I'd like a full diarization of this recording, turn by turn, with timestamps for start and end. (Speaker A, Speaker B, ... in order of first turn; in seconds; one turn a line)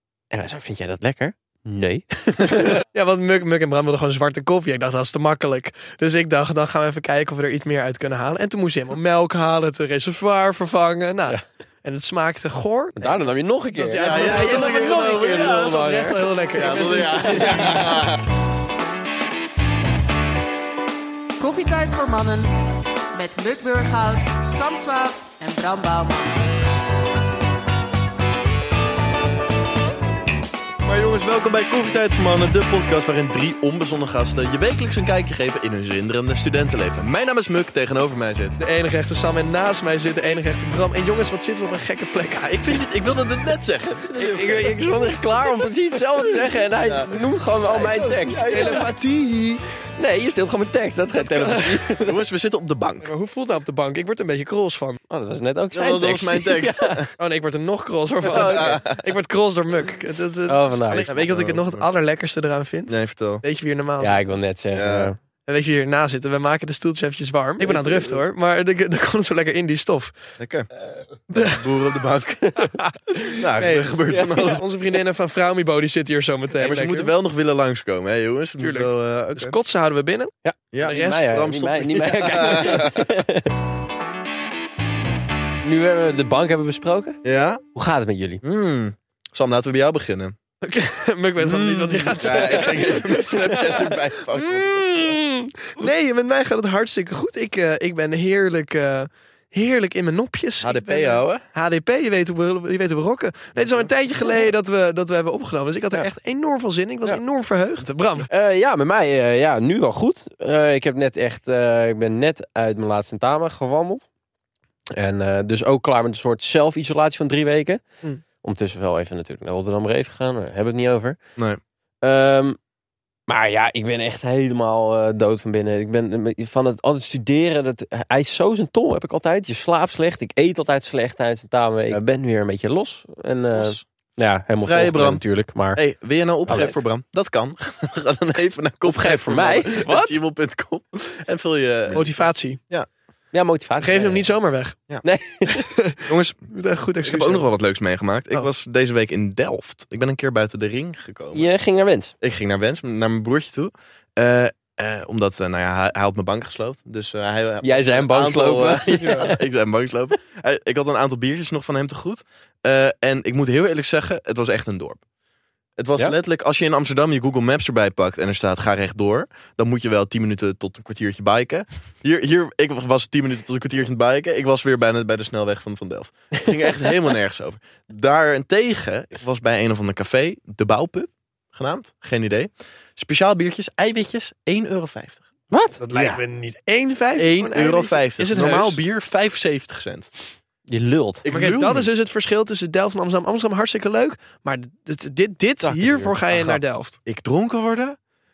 Speaker A: 0.3-2.8
Speaker B: 2.5-18.0
Speaker A: 13.0-18.0
Speaker C: 13.9-15.7
Speaker C: 16.5-18.2
Speaker D: 21.4-26.5
Speaker C: 30.8-38.6
Speaker B: 38.6-42.8
Speaker C: 42.4-45.0
Speaker A: 44.1-48.9
Speaker C: 46.8-48.9
Speaker B: 48.5-49.6
Speaker A: 50.0-52.2
Speaker B: 51.2-51.9
Speaker C: 52.0-53.1
Speaker B: 53.0-55.0
Speaker A: 55.1-57.1
Speaker C: 55.7-57.1
Speaker B: 57.2-64.2
Speaker A: 58.2-58.8
Speaker C: 58.3-59.0
Speaker A: 60.5-61.1
Speaker C: 61.1-61.9
Speaker C: 62.9-63.4
Speaker A: 64.0-65.2
Speaker C: 64.7-65.1
Speaker B: 65.5-70.1
Speaker C: 67.6-68.2
Speaker C: 70.4-70.7
Speaker C: 71.3-74.6
Speaker B: 71.3-71.7
Speaker B: 72.6-77.1
Speaker A: 74.1-74.5
Speaker C: 76.6-79.5
Speaker B: 78.6-80.3
Speaker A: 80.4-83.5
Speaker C: 80.7-83.2
Speaker B: 80.8-81.5
Speaker A: 85.6-87.2
Speaker C: 87.2-87.6
Speaker A: 87.7-88.4
Speaker C: 88.4-90.3
Speaker B: 90.6-108.3
Speaker A: 91.4-92.9
Speaker C: 92.2-95.2
Speaker C: 100.6-101.4
Speaker C: 103.6-103.9
Speaker A: 108.2-114.1
Speaker A: 114.9-117.8
Speaker A: 118.4-121.2
Speaker A: 122.0-122.6
Speaker A: 123.3-135.8
Speaker C: 134.6-135.2
Speaker C: 135.7-142.9
Speaker A: 136.5-136.8
Speaker A: 138.8-140.2
Speaker B: 141.9-142.6
Speaker A: 143.3-144.3
Speaker B: 143.8-144.8
Speaker A: 145.0-145.7
Speaker B: 145.4-147.5
Speaker C: 146.1-146.4
Speaker C: 147.0-151.5
Speaker A: 151.3-152.1
Speaker C: 152.2-165.0
Speaker A: 157.6-159.4
Speaker B: 158.9-159.3
Speaker C: 165.8-185.2
Speaker A: 185.5-185.8
Speaker B: 185.8-188.8
Speaker C: 185.9-186.2
Speaker C: 187.2-190.1
Speaker A: 190.7-191.2
Speaker C: 191.2-191.9
Speaker B: 191.3-197.0
Speaker A: 195.6-196.6
Speaker C: 197.1-198.0